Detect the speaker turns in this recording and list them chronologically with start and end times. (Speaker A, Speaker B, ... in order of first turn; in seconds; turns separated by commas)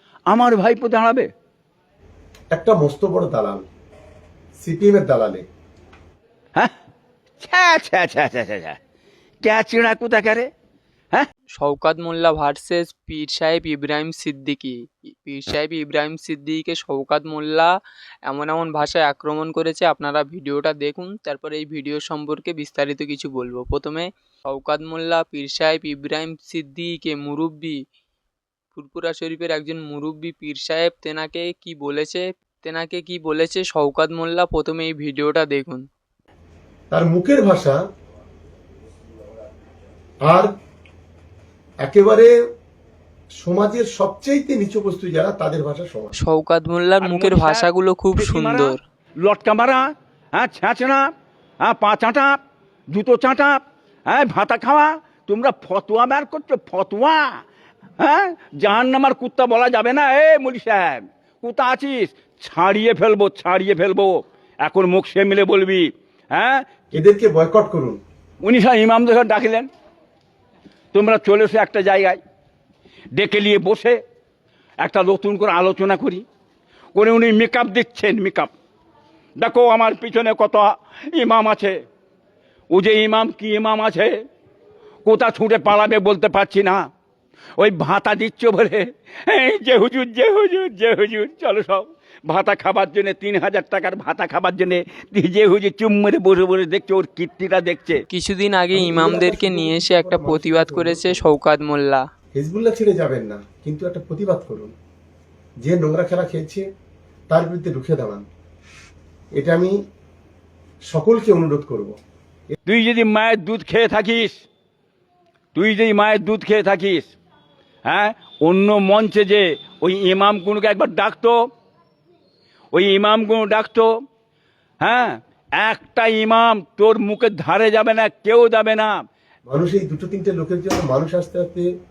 Speaker A: 0.3-1.3, Speaker B: 2.5-3.7, Speaker B: 4.6-5.4, Speaker A: 7.4-8.8, Speaker A: 9.4-10.5, Speaker C: 11.6-17.7, Speaker C: 18.3-27.8, Speaker C: 28.7-35.8, Speaker B: 36.9-37.8, Speaker B: 40.2-40.5, Speaker B: 41.8-42.3, Speaker B: 43.4-46.1, Speaker C: 46.2-48.8, Speaker A: 47.0-49.8, Speaker A: 50.3-51.1, Speaker A: 51.6-52.4, Speaker A: 52.9-57.3, Speaker A: 58.0-66.6, Speaker B: 66.9-68.0, Speaker A: 68.4-69.7, Speaker A: 70.9-72.2, Speaker A: 73.1-74.0, Speaker A: 74.8-76.2, Speaker A: 76.9-78.5, Speaker A: 79.4-81.8, Speaker A: 82.7-84.1, Speaker A: 85.0-86.9, Speaker A: 87.6-98.0, Speaker C: 98.1-102.0, Speaker B: 98.7-101.2, Speaker B: 102.3-104.7, Speaker B: 105.6-106.6, Speaker B: 107.3-108.2, Speaker B: 109.4-109.8, Speaker B: 110.9-112.0, Speaker A: 112.7-114.4, Speaker A: 115.5-117.1, Speaker A: 117.9-121.3, Speaker A: 122.7-123.9, Speaker A: 124.8-128.9, Speaker B: 129.5-131.7